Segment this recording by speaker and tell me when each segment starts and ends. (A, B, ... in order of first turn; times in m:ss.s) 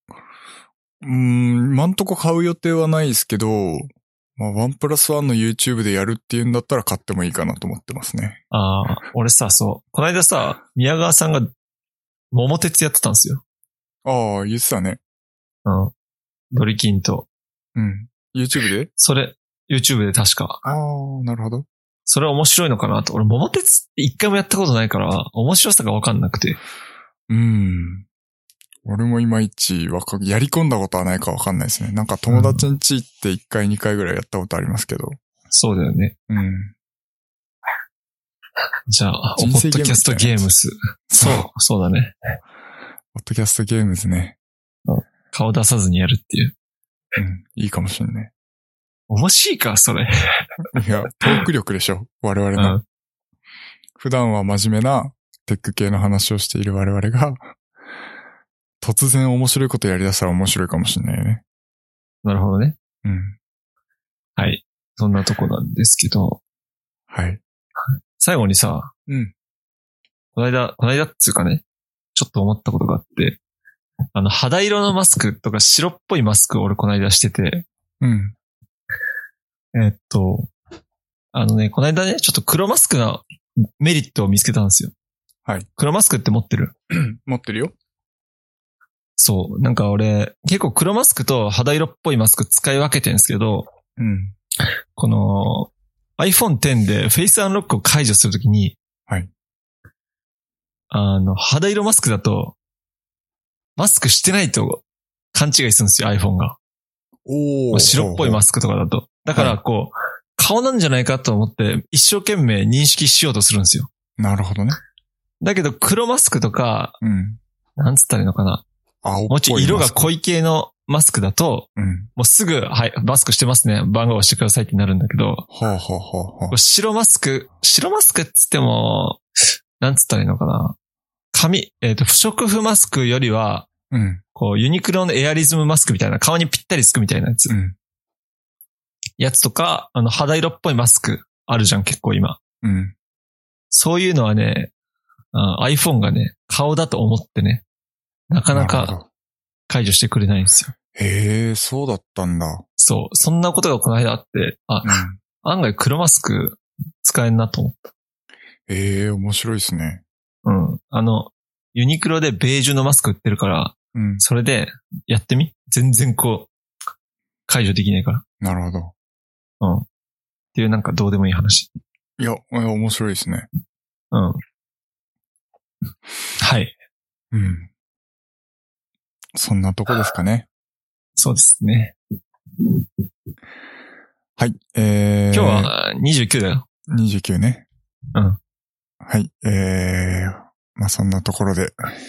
0:01.0-0:08.4 A
0:08.5-0:11.5 B
0:12.3-0:13.4 B
0:14.0-0:15.0 A
0:15.6-0:15.9 B
0:16.5-0:17.3 B
0:17.8-0:18.9 A
0:19.0-0:20.6 B
0:20.6-0:21.6 A
0:22.1-0:26.6 B
0:27.3-0:28.0 A
0:28.8-0:35.2 A
0:32.3-0:32.6 B
0:35.5-0:36.2 B
0:36.3-0:36.7 A
0:38.9-0:42.1 B
0:39.4-0:40.4 A
0:41.1-0:41.5 A
0:43.1-0:44.4 A
0:44.8-0:46.5 B
0:47.2-0:48.3 A
0:49.1-0:50.5 B
0:50.7-0:52.8 A
0:52.6-0:52.8 B
0:54.0-0:57.5 A
0:58.8-1:01.4 A
1:02.2-1:02.8 B
1:03.0-1:03.4 A
1:04.4-1:06.4 B
1:07.1-1:07.4 A
1:08.2-1:08.9 B
1:10.3-1:11.6 B
1:12.1-1:13.4 B
1:14.1-1:17.6 B
1:18.0-1:18.3 A
1:19.7-1:20.5 B
1:21.3-1:24.9 B
1:25.8-1:26.7 B
1:26.9-1:27.7 A
1:29.2-1:33.7 B
1:34.0-1:34.3 A
1:34.9-1:38.8 B
1:40.9-1:42.6 B
1:43.8-1:46.6 B
1:47.2-1:48.4 A
1:47.7-1:53.9 B
1:49.3-1:49.6 A
1:54.2-1:54.8 A
1:55.4-1:57.0 B
1:57.0-1:57.4 A
1:57.8-1:58.6 B
1:59.0-2:00.0 A
1:59.3-2:05.5 B
2:01.8-2:02.1 A
2:05.5-2:06.6 A
2:06.5-2:09.2 B
2:09.8-2:10.7 B
2:11.3-2:13.7 B
2:13.9-2:14.2 A
2:14.3-2:17.5 B
2:17.5-2:17.8 A
2:19.2-2:22.4 B
2:22.6-2:22.9 A
2:23.7-2:24.7 B
2:25.3-2:27.6 B
2:28.3-2:29.0 B
2:28.5-2:29.1 A
2:29.7-2:30.7 B
2:30.9-2:32.6 A
2:32.8-2:37.9 B
2:34.8-2:35.2 A
2:38.7-2:40.0 A
2:40.4-2:46.5 B
2:43.9-2:44.2 A
2:47.5-2:48.2 B
2:48.4-2:48.9 A
2:49.6-2:49.8 B
2:50.5-2:51.7 B
2:52.2-2:53.5 A
2:54.1-2:54.4 B
2:56.4-2:56.7 B
2:57.3-2:57.7 A
2:59.3-3:00.5 A
3:01.2-3:01.9 B
3:04.4-3:05.7 A
3:05.3-3:06.6 B
3:06.9-3:07.6 A
3:08.1-3:08.4 B
3:09.0-3:11.9 A